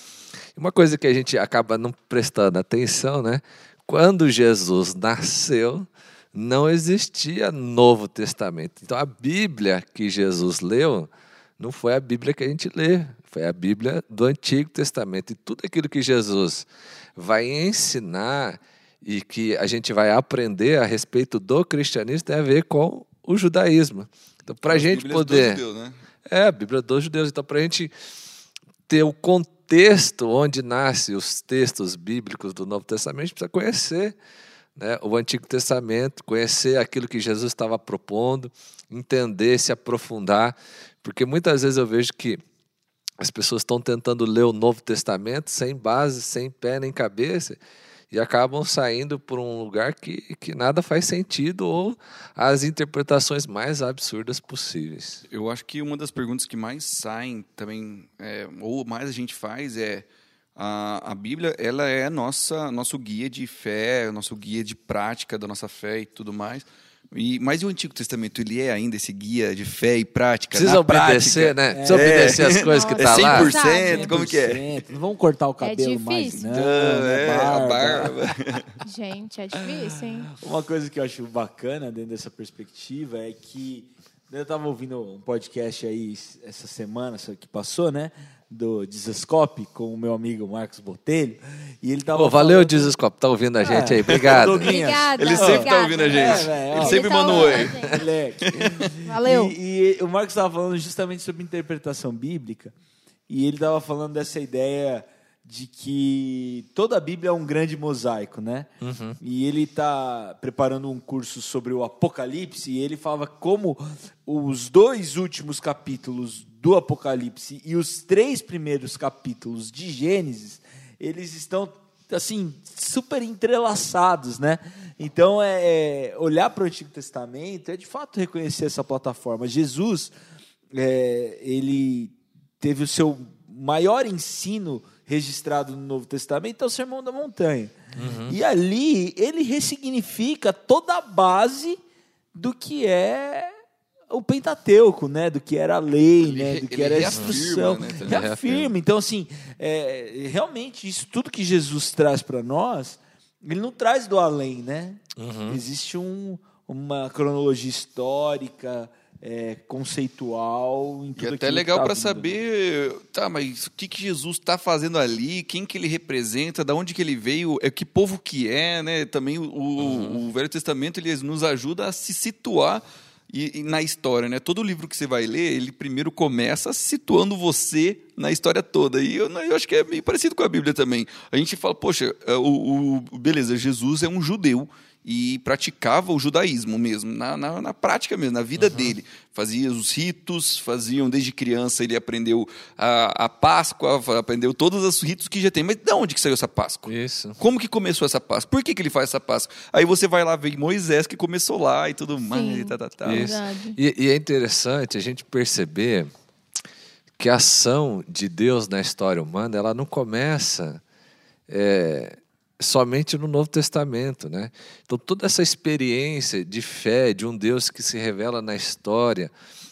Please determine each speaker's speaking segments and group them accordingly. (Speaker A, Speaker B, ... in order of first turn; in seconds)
Speaker A: 0.6-25.6, 26.3-27.9, 28.9-34.1, 34.8-42.4, 43.2-47.6, 48.1-55.2, 70.5-73.6, 92.1-94.7, 108.8-109.2, 137.9-138.4, 147.1-147.4, 148.0-148.7, 155.2-155.6, 169.8-170.2, 188.6-189.0, 196.9-197.4, 203.1-206.1, 207.2-210.8, 211.5-219.3
Speaker B: 24.7-26.0, 55.3-74.7, 76.4-78.8, 94.1-94.4, 95.2-98.9, 146.2-148.3, 161.2-203.4
Speaker C: 71.7-72.4, 73.8-78.2, 80.4-92.9, 93.6-102.7, 103.3-130.1, 130.7-141.8, 142.3-143.5, 144.1-162.4
Speaker D: 72.5-74.1, 75.6-76.7, 78.8-80.3, 94.6-98.0, 99.0-99.5, 202.3-203.8